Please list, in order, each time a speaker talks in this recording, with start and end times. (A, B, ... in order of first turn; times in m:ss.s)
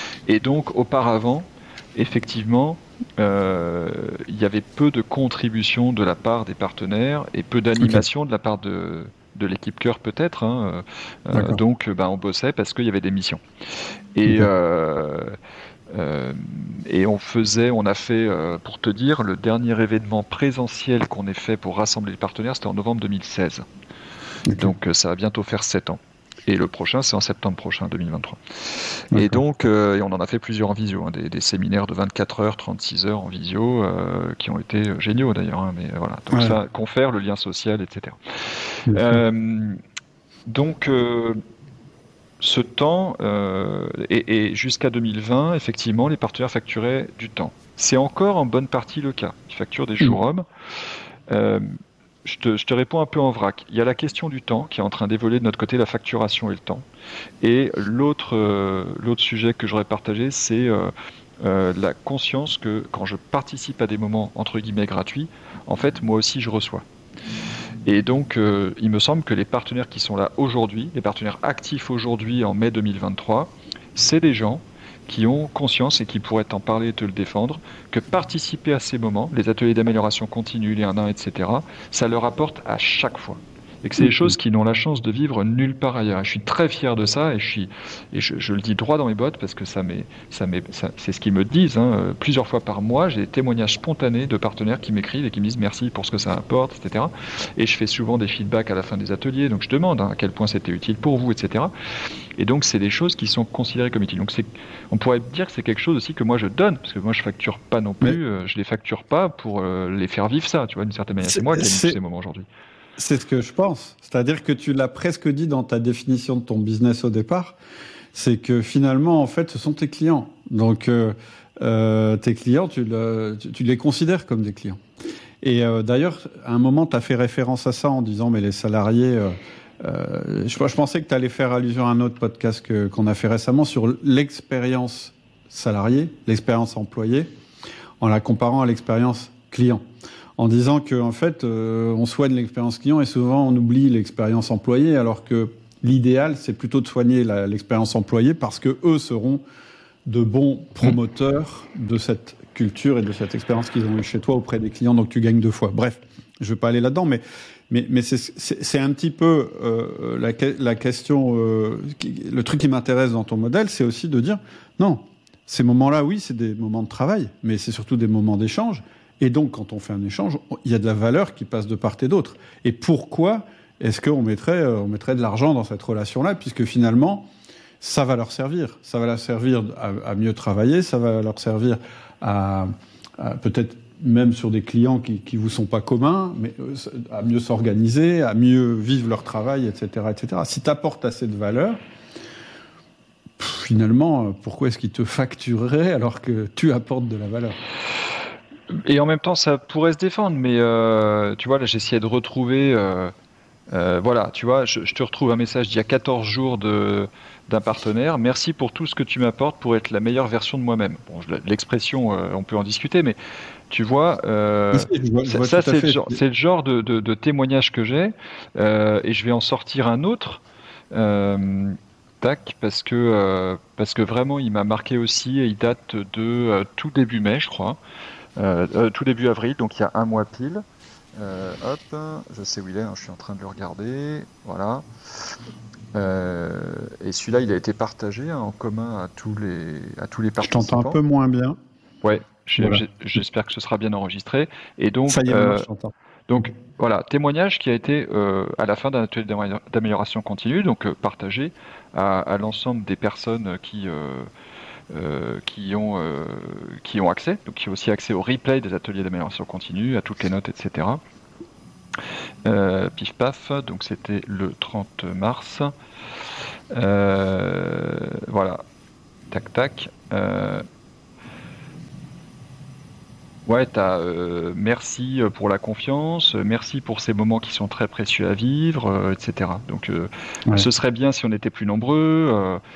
0:00.3-0:13.4 A
0:11.3-0:11.6 B
0:14.2-0:15.4 A
0:15.9-0:23.7 A
0:24.5-0:24.7 B
0:24.5-0:39.8 A
0:29.1-0:29.4 B
0:36.3-0:36.6 B
0:38.9-0:39.2 B
0:40.5-0:41.4 A
0:42.4-0:50.5 A
0:51.3-0:51.7 A
0:52.2-0:56.9 A
0:57.4-1:06.8 A
1:07.8-1:41.7 A
1:24.0-1:24.3 B
1:42.4-1:52.5 A
1:51.2-1:52.0 B
1:53.0-1:57.6 B
1:58.1-2:04.8 B
2:05.4-2:17.3 B
2:18.0-2:19.8 B
2:20.4-2:29.4 B
2:30.1-2:57.3 B
2:57.8-3:11.8 B
3:13.4-3:17.6 B
3:18.7-3:23.1 A
3:23.7-3:33.2 A
3:33.7-3:47.8 A
3:34.7-3:36.2 B
3:48.4-3:50.6 A
3:51.2-3:54.8 A
3:55.9-4:01.0 A
4:00.4-4:01.6 B
4:02.0-4:05.7 A
4:05.1-4:05.9 B
4:06.3-4:14.3 A
4:14.9-4:21.0 A
4:22.4-4:25.7 A
4:26.7-4:28.6 A
4:29.3-4:30.6 A
4:33.5-4:42.6 A